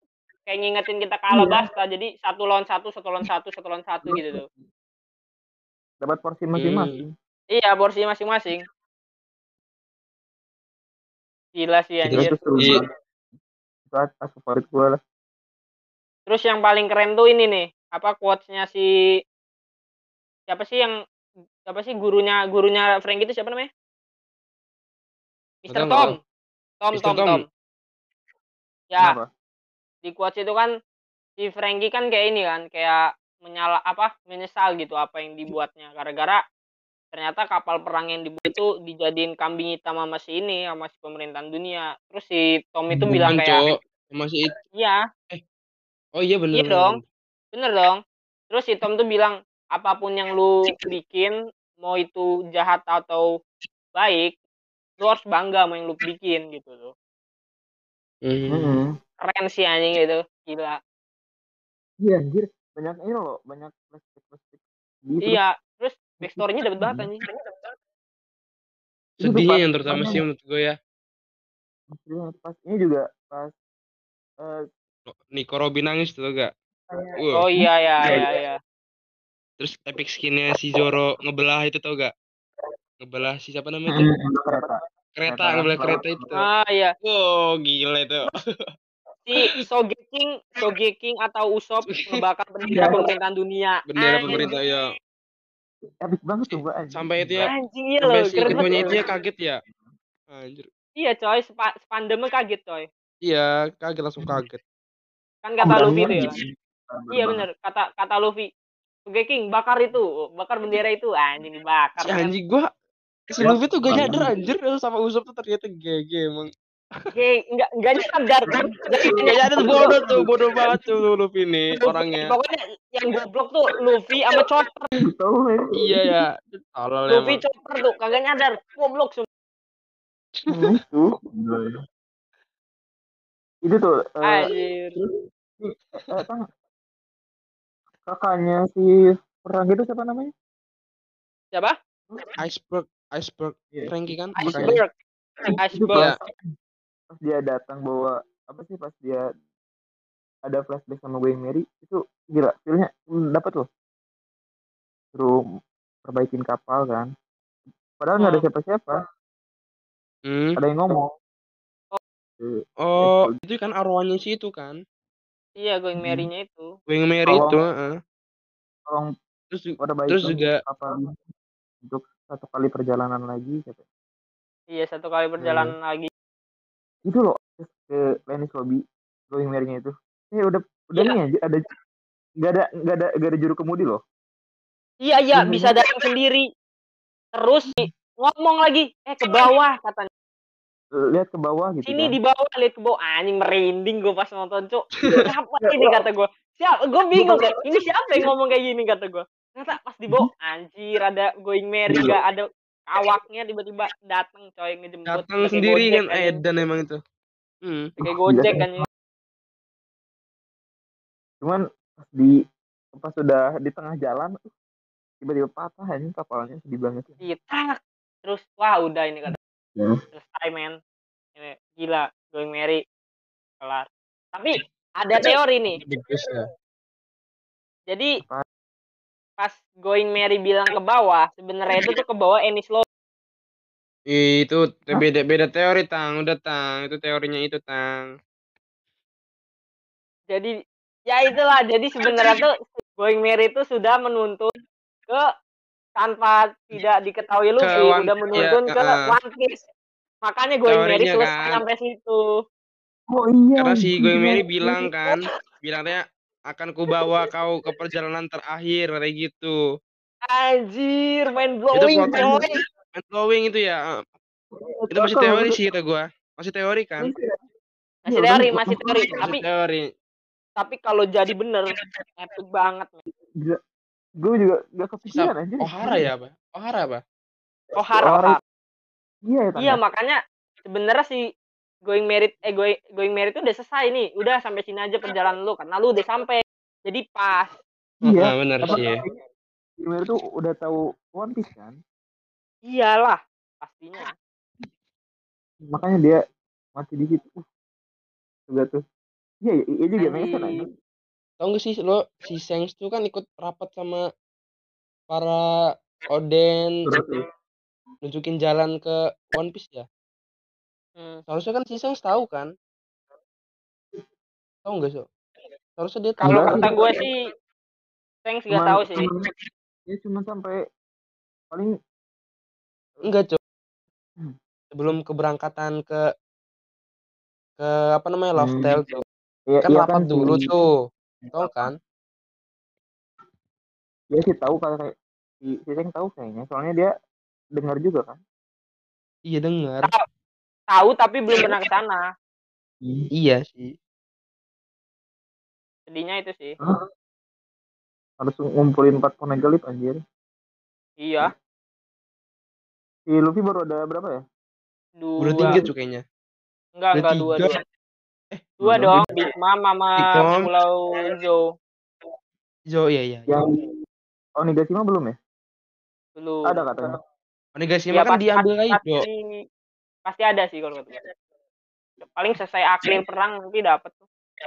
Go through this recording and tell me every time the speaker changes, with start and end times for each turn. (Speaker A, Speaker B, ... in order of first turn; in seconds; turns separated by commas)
Speaker A: 0.5-4.5, Speaker B: 1.3-1.6, Speaker B: 4.0-4.5, Speaker B: 6.0-7.1, Speaker C: 6.6-7.0, Speaker A: 7.5-8.6, Speaker A: 11.6-12.8, Speaker B: 12.0-12.9, Speaker C: 12.1-12.8, Speaker B: 13.9-15.0, Speaker A: 16.3-18.9, Speaker A: 20.5-20.9, Speaker A: 21.6-23.7, Speaker A: 25.6-26.1, Speaker C: 25.7-26.1, Speaker A: 26.8-27.4, Speaker C: 26.9-27.4, Speaker B: 29.0-29.3, Speaker A: 30.0-30.7, Speaker A: 31.4-36.4, Speaker A: 37.1-43.6, Speaker B: 42.9-43.3, Speaker C: 43.1-44.5, Speaker A: 44.7-45.0, Speaker C: 46.2-47.0, Speaker A: 46.5-47.0, Speaker A: 47.5-53.3, Speaker A: 53.9-54.4, Speaker A: 55.0-56.9, Speaker C: 58.2-58.7, Speaker B: 58.5-58.9, Speaker A: 59.2-60.8, Speaker B: 62.0-65.4, Speaker A: 65.2-67.2, Speaker B: 66.2-67.1, Speaker B: 69.2-70.2, Speaker C: 69.2-70.7, Speaker B: 71.9-73.5, Speaker C: 75.1-76.5, Speaker B: 76.9-78.3, Speaker C: 77.2-77.5, Speaker A: 77.3-78.6, Speaker C: 79.6-82.1, Speaker C: 83.0-84.1, Speaker B: 83.9-86.4, Speaker C: 85.2-86.4, Speaker A: 86.4-86.9, Speaker C: 87.0-88.4, Speaker A: 89.2-94.5, Speaker B: 92.7-93.0, Speaker C: 93.9-94.9, Speaker B: 94.2-94.5, Speaker B: 96.0-97.5, Speaker C: 96.5-99.6, Speaker A: 97.4-99.0, Speaker B: 98.4-99.1, Speaker C: 100.3-100.7, Speaker A: 101.0-102.9, Speaker C: 103.2-104.6, Speaker A: 105.4-106.3, Speaker B: 105.6-107.5, Speaker A: 107.1-108.5, Speaker A: 109.0-112.3, Speaker C: 112.0-112.7, Speaker C: 113.3-116.5, Speaker B: 113.4-114.3, Speaker A: 117.1-119.9, Speaker B: 118.5-120.8, Speaker C: 119.1-122.3, Speaker A: 121.8-124.9, Speaker B: 125.0-126.1, Speaker C: 125.8-127.4, Speaker A: 127.1-129.3, Speaker B: 130.5-131.7, Speaker B: 133.6-136.4, Speaker A: 134.2-135.0, Speaker B: 138.1-140.3, Speaker C: 142.4-144.8, Speaker B: 143.7-144.8, Speaker A: 144.3-144.9, Speaker A: 145.6-146.1, Speaker B: 145.7-146.3, Speaker B: 147.1-149.2, Speaker B: 150.4-153.7, Speaker B: 156.0-157.1, Speaker B: 158.0-159.0, Speaker A: 158.2-158.4, Speaker C: 160.3-160.6, Speaker B: 160.6-161.1, Speaker B: 162.4-163.3, Speaker C: 162.8-164.8, Speaker A: 165.6-166.7, Speaker B: 166.0-166.3, Speaker C: 166.9-167.9, Speaker B: 167.3-167.6, Speaker C: 169.5-170.5, Speaker B: 169.8-171.1, Speaker B: 171.8-173.8, Speaker A: 174.7-176.1, Speaker B: 175.4-175.7, Speaker B: 177.1-181.6, Speaker B: 182.4-184.0, Speaker A: 185.0-186.5, Speaker B: 185.3-185.8, Speaker A: 187.3-190.1, Speaker B: 190.9-192.2, Speaker A: 191.8-206.4, Speaker B: 195.6-196.0, Speaker B: 197.1-197.6, Speaker B: 201.9-202.2, Speaker C: 205.1-207.0, Speaker C: 207.6-207.9, Speaker A: 208.0-208.8, Speaker B: 208.0-208.8, Speaker B: 211.4-212.3, Speaker B: 212.9-214.4, Speaker B: 215.2-217.2, Speaker A: 217.2-219.4, Speaker B: 219.3-220.0, Speaker A: 220.1-220.7, Speaker A: 221.3-222.8, Speaker A: 223.6-225.8, Speaker C: 225.7-226.4, Speaker A: 229.4-232.8, Speaker C: 234.1-238.1, Speaker A: 241.1-244.5, Speaker A: 245.9-249.6, Speaker C: 247.6-249.1, Speaker A: 250.2-252.2, Speaker C: 250.7-251.5, Speaker B: 253.1-254.9, Speaker C: 253.6-259.5, Speaker A: 260.3-262.6, Speaker C: 261.7-263.8, Speaker B: 262.1-262.5, Speaker B: 264.5-265.6, Speaker C: 264.9-267.1, Speaker B: 267.0-267.3, Speaker A: 268.0-269.4, Speaker B: 268.1-269.3, Speaker C: 269.2-269.9, Speaker A: 270.6-273.0, Speaker B: 274.2-276.1, Speaker C: 275.1-277.0, Speaker B: 277.7-278.4, Speaker A: 277.8-278.4, Speaker B: 279.2-279.8, Speaker A: 279.6-281.2, Speaker A: 281.8-287.5, Speaker B: 288.0-289.2, Speaker C: 288.0-289.0, Speaker B: 289.8-291.8, Speaker A: 292.7-294.1, Speaker B: 295.7-296.2, Speaker B: 296.7-297.4, Speaker B: 298.5-298.8, Speaker B: 299.4-300.7, Speaker A: 300.0-300.6, Speaker C: 301.4-304.0, Speaker C: 305.1-305.4, Speaker C: 306.1-306.7, Speaker B: 306.8-307.2, Speaker C: 308.0-309.9, Speaker C: 311.3-312.5, Speaker C: 314.6-315.1, Speaker C: 315.8-316.7, Speaker A: 316.2-317.1, Speaker B: 316.2-316.9, Speaker A: 318.2-319.1, Speaker B: 318.5-319.2, Speaker B: 319.9-320.6, Speaker C: 323.1-323.4, Speaker C: 324.7-326.0, Speaker C: 327.6-328.9, Speaker B: 328.4-329.0, Speaker B: 329.5-330.5, Speaker C: 329.6-330.7, Speaker B: 331.2-331.7, Speaker C: 331.3-331.8, Speaker B: 334.1-336.9, Speaker B: 337.6-338.2, Speaker C: 339.3-339.9, Speaker A: 340.7-342.0, Speaker B: 342.8-343.1, Speaker C: 343.1-343.7, Speaker A: 345.9-346.5, Speaker B: 348.2-350.0, Speaker A: 351.0-351.3, Speaker B: 353.1-354.2, Speaker A: 355.0-355.6, Speaker C: 355.2-356.0, Speaker A: 356.8-357.6, Speaker C: 356.9-357.5, Speaker C: 358.3-359.0, Speaker A: 358.6-361.4, Speaker B: 358.8-359.1, Speaker C: 360.0-360.5, Speaker C: 362.7-363.4, Speaker B: 363.3-363.7, Speaker B: 364.4-365.1, Speaker A: 366.1-366.6, Speaker B: 366.5-366.9, Speaker C: 367.6-369.1, Speaker A: 367.9-369.4, Speaker A: 370.0-371.0, Speaker A: 372.0-374.1